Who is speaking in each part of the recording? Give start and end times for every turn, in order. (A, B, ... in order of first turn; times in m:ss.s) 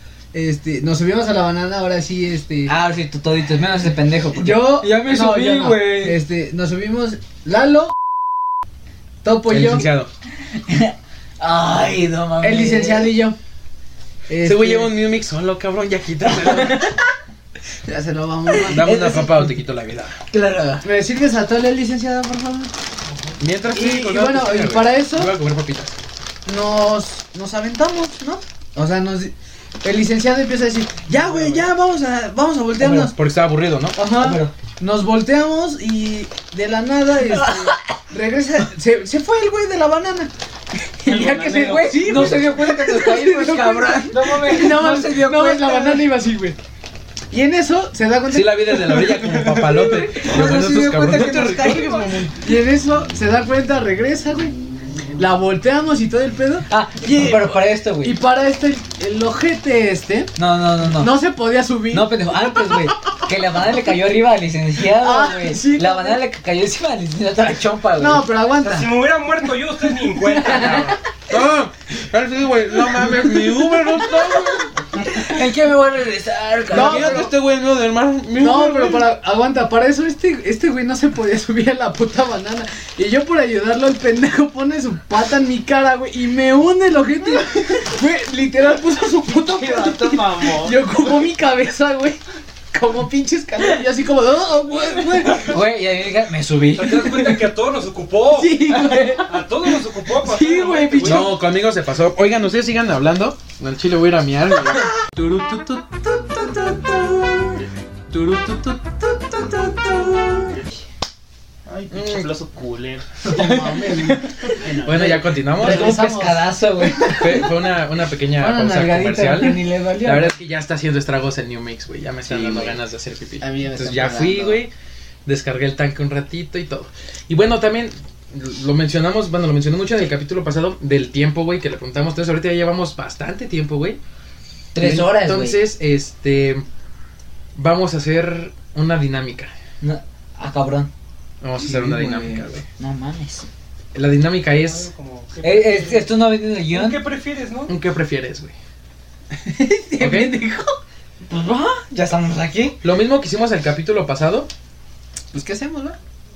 0:00.3-0:02.7 A
0:02.7-0:06.2 B
0:04.3-0:08.0 A
0:09.2-0:09.9 A
0:09.5-0:10.1 C
0:10.7-0:13.1 B
0:12.4-0:13.4 A
0:14.3-0:14.9 A
0:14.4-0:16.9 C
0:17.8-0:19.0 A
0:18.6-0:19.4 B
0:18.7-0:20.2 C
0:20.3-0:20.9 B
0:20.8-0:22.7 A
0:23.4-0:26.0 C
0:23.7-0:25.3 A
0:26.4-0:33.1 A
0:31.3-0:31.6 D
0:32.8-0:34.0 C
0:34.0-0:40.3 A
0:34.1-0:34.5 B
0:37.3-0:37.8 B
0:41.0-0:46.6 A
0:41.1-0:46.1 B
0:47.3-0:49.3 A
0:48.3-0:52.3 C
0:49.7-0:52.3 B
0:52.4-0:54.6 A
0:55.2-1:00.3 A
0:56.7-0:58.2 B
1:00.4-1:01.2 B
1:00.9-1:02.3 A
1:01.9-1:08.2 B
1:04.9-1:06.2 A
1:08.0-1:09.1 A
1:08.6-1:11.0 D
1:10.2-1:10.9 A
1:11.3-1:14.7 C
1:15.0-1:17.3 B
1:16.7-1:17.4 A
1:16.7-1:19.1 C
1:18.4-1:32.2 A
1:29.3-1:30.7 E
1:32.7-1:35.6 A
1:35.4-1:37.3 B
1:36.7-1:41.4 D
1:38.3-1:39.4 A
1:40.2-1:41.3 A
1:41.0-1:45.0 C
1:48.1-1:48.7 B
1:51.7-1:53.3 E
1:51.9-1:52.3 C
1:53.3-1:57.4 A
1:54.8-1:56.0 C
1:55.6-1:57.4 B
1:57.1-2:04.7 C
1:58.4-2:00.4 A
2:02.3-2:02.8 A
2:03.4-2:04.6 A
2:05.3-2:14.0 C
2:14.7-2:15.6 B
2:14.8-2:16.6 C
2:17.6-2:19.5 C
2:19.8-2:20.9 B
2:21.4-2:22.6 C
2:21.6-2:22.5 A
2:22.8-2:23.5 B
2:23.9-2:24.9 C
2:24.4-2:27.7 D
2:25.4-2:27.0 B
2:27.7-2:28.5 C
2:29.4-2:30.8 A
2:30.0-2:30.4 C
2:31.2-2:32.8 B
2:32.8-2:34.5 C
2:35.3-2:36.0 A